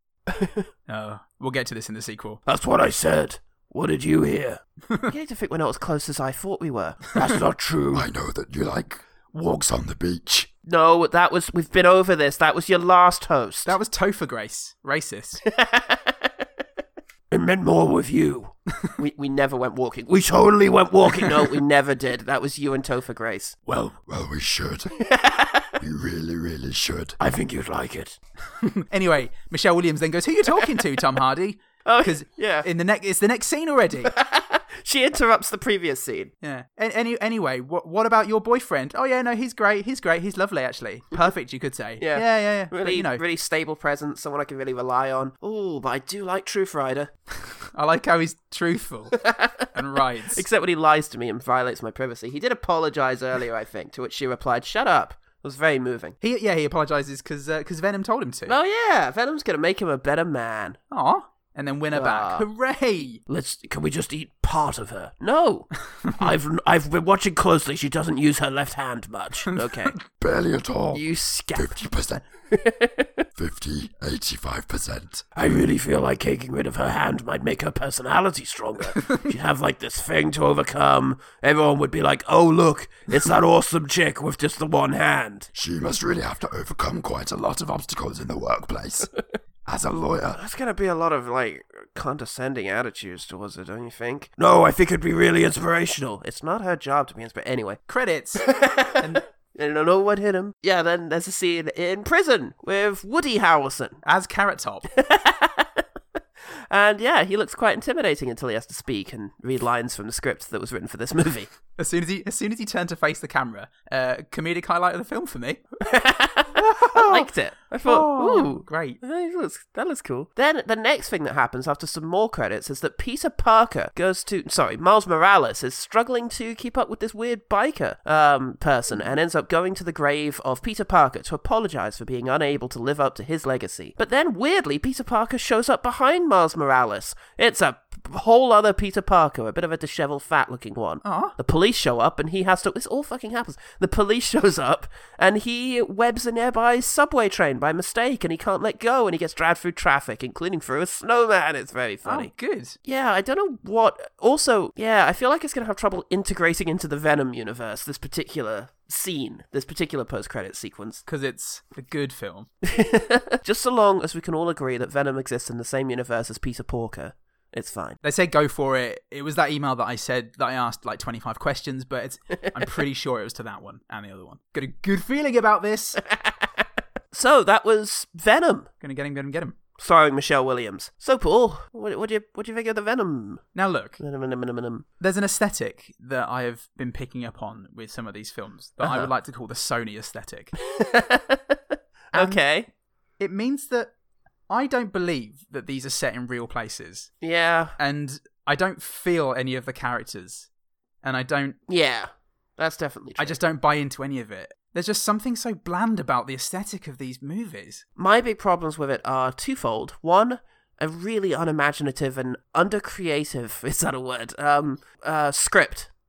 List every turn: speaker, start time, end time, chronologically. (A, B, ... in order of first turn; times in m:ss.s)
0:00.4-0:00.6 A
0:00.9-0:02.4 B
0:02.5-0:08.1 A
0:07.9-0:10.5 C
0:10.7-0:13.7 A
0:13.6-0:15.4 B
0:15.4-0:16.2 A
0:17.3-0:23.6 A
0:23.7-0:24.9 C
0:25.0-0:25.7 A
0:25.8-0:27.2 C
0:27.2-0:28.2 A
0:28.6-0:34.1 B
0:31.8-0:32.7 A
0:34.0-0:36.3 A
0:36.4-0:43.2 B
0:42.0-0:47.1 A
0:47.7-0:50.4 B
0:49.2-0:49.7 A
0:50.3-0:56.2 A
0:56.2-0:58.6 B
0:58.5-1:00.8 A
1:00.9-1:03.2 B
1:01.9-1:02.5 A
1:03.3-1:10.0 A
1:06.0-1:06.3 B
1:09.5-1:10.0 B
1:10.1-1:12.2 C
1:10.9-1:11.8 A
1:12.5-1:13.1 A
1:13.4-1:15.2 C
1:15.4-1:25.5 A
1:25.5-1:29.1 C
1:29.7-1:30.4 C
1:30.3-1:37.8 A
1:37.9-1:39.2 B
1:38.4-1:39.0 A
1:39.5-1:44.0 A
1:44.0-1:44.9 B
1:45.0-1:45.8 A
1:46.7-1:51.5 A
1:51.8-1:55.6 B
1:55.8-2:32.3 A
1:56.6-1:57.3 B
1:57.8-1:59.0 B
2:21.0-2:21.4 B
2:32.0-2:32.8 B
2:32.8-2:41.0 A
2:41.1-2:42.5 B
2:42.7-2:48.0 A
2:48.0-2:56.0 B
2:56.1-2:56.5 A
2:57.1-2:58.7 A
2:58.8-2:59.6 B
2:59.8-3:03.4 A
3:03.6-3:04.0 B
3:04.0-3:04.8 A
3:05.0-3:10.5 B
3:08.8-3:09.1 A
3:10.7-3:11.6 A
3:12.1-3:12.7 A
3:12.1-3:12.4 B
3:13.2-3:13.9 B
3:14.5-3:17.2 B
3:17.2-3:17.8 A
3:17.8-3:20.5 B
3:21.0-3:21.6 B
3:21.7-3:23.4 A
3:23.2-3:27.8 B
3:28.0-3:35.9 A